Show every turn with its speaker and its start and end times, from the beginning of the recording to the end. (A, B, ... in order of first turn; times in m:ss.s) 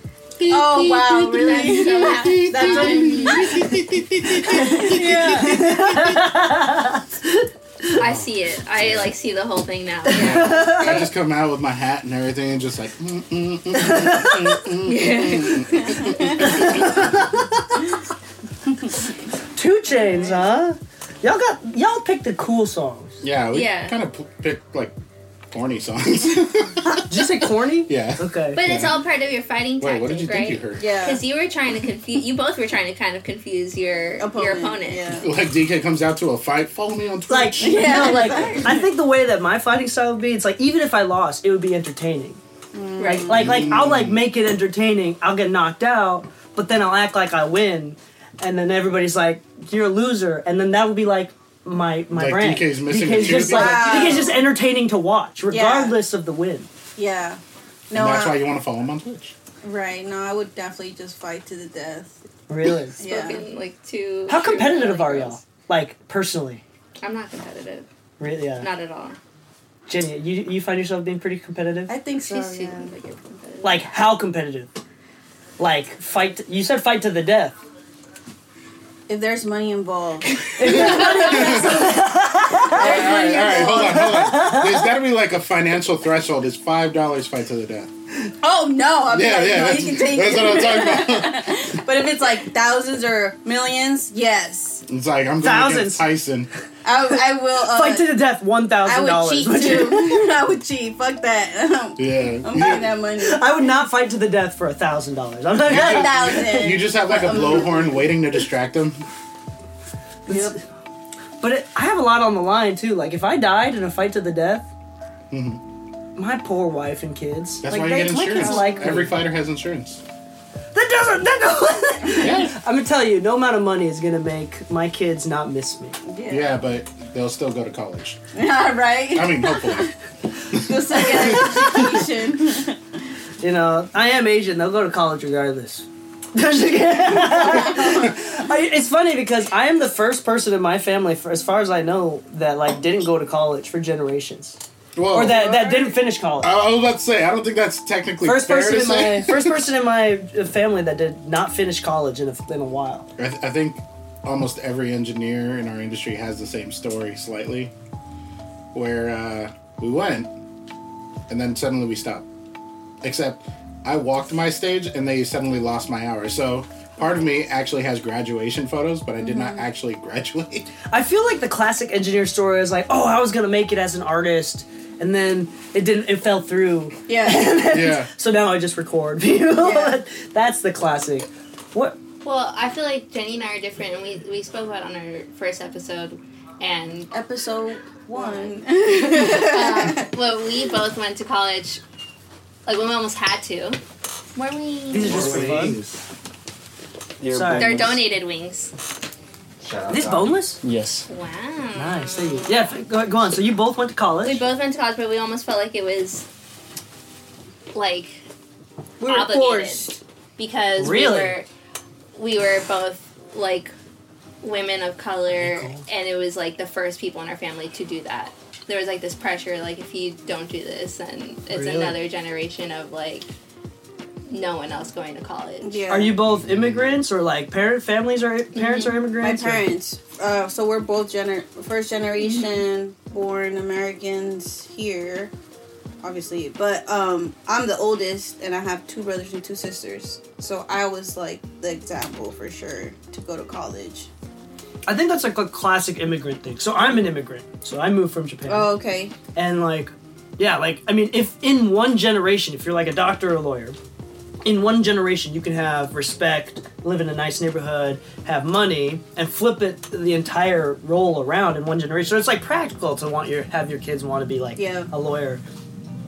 0:00.4-0:03.6 A
0:00.4-0:06.2 B
0:00.4-0:03.8 C
0:04.3-0:05.6 C
0:04.4-0:08.0 D
0:08.0-0:11.1 A
0:08.0-0:09.1 B
0:10.1-0:11.0 D
0:10.1-0:17.4 B
0:13.8-0:14.6 D
0:14.8-0:16.3 A
0:15.8-0:16.2 C
0:16.4-0:17.6 D
0:19.5-0:23.2 D
0:19.9-0:20.3 A
0:23.2-0:24.9 B
0:23.5-0:24.0 A
0:25.5-0:29.0 B
0:27.1-0:28.6 D
0:28.5-0:35.2 A
0:29.8-0:30.8 B
0:30.8-0:31.2 C
0:34.2-0:35.3 C
0:35.2-0:38.6 B
0:37.3-0:42.4 D
0:37.6-0:38.8 C
0:42.7-0:43.7 C
0:43.0-0:43.3 A
0:43.0-0:56.7 D
0:43.3-0:44.2 B
0:52.1-0:54.2 B
0:53.2-0:54.4 C
0:55.5-0:56.0 C
0:57.0-0:58.4 C
0:57.9-0:59.3 B
0:59.6-1:02.2 C
1:02.5-1:03.0 D
1:03.0-1:03.5 C
1:03.0-1:05.4 A
1:04.3-1:06.6 D
1:07.0-1:07.9 A
1:08.2-1:08.7 D
1:08.6-1:09.2 A
1:09.9-1:11.9 D
1:11.9-1:12.9 C
1:12.2-1:13.9 A
1:13.6-1:14.7 D
1:15.6-1:17.6 D
1:19.1-1:21.9 C
1:20.5-1:24.9 D
1:20.7-1:21.8 B
1:22.6-1:24.2 C
1:22.7-1:27.9 B
1:28.4-1:34.8 C
1:29.1-1:31.8 B
1:34.9-1:36.5 B
1:35.4-1:36.0 D
1:36.8-1:38.0 C
1:37.6-1:40.3 D
1:38.8-1:43.7 C
1:42.0-1:42.9 B
1:43.2-1:46.6 D
1:45.6-1:48.2 C
1:45.7-1:49.0 B
1:47.3-1:47.6 D
1:50.3-1:50.6 D
1:50.3-1:50.6 C
1:51.4-1:54.7 D
1:55.3-1:55.6 B
1:56.2-1:59.1 D
1:57.6-2:00.0 B
1:58.0-1:59.1 C
2:00.7-2:06.0 D
2:02.2-2:02.5 B
2:06.1-2:06.6 C
2:06.3-2:08.2 B
2:08.3-2:09.9 C
2:09.1-2:09.9 B
2:10.5-2:11.9 B
2:10.6-2:12.8 C
2:11.0-2:12.0 D
2:13.4-2:24.6 D
2:17.2-2:18.2 C
2:24.9-2:25.6 B
2:25.1-2:26.5 D
2:25.2-2:26.0 C
2:26.4-2:29.7 B
2:28.2-2:33.1 D
2:33.2-2:37.7 B
2:38.7-2:40.3 B
2:41.3-2:42.2 B
2:43.0-2:50.7 B
2:49.2-2:49.6 C
2:50.9-3:02.0 D
2:57.1-2:57.6 C
2:57.7-2:58.1 B
2:59.6-3:00.0 C
3:02.2-3:07.1 A
3:07.1-3:10.0 C
3:08.1-3:11.8 A
3:12.6-3:13.8 A
3:14.4-3:15.6 A
3:14.9-3:15.8 D
3:15.0-3:16.0 E
3:17.2-3:18.0 E
3:17.3-3:17.7 D
3:17.5-3:18.7 A
3:19.6-3:21.1 E
3:19.9-3:20.6 D
3:21.1-3:22.7 A
3:21.7-3:24.4 D
3:24.2-3:26.3 A
3:27.7-3:28.2 A
3:29.0-3:30.0 C
3:29.0-3:31.5 A
3:30.8-3:31.4 D
3:32.1-3:33.7 A
3:34.4-3:43.3 A
3:35.3-3:35.8 D
3:41.5-3:41.9 D
3:44.3-3:45.8 A
3:45.6-3:46.2 C
3:45.9-3:49.6 D
3:46.3-3:46.8 B
3:48.6-3:48.9 A
3:49.2-3:55.3 C
3:52.2-3:52.6 A
3:56.0-4:04.1 C
4:04.8-4:08.7 D
4:08.5-4:09.1 C
4:09.3-4:13.8 D
4:14.4-4:25.4 D
4:24.5-4:24.9 C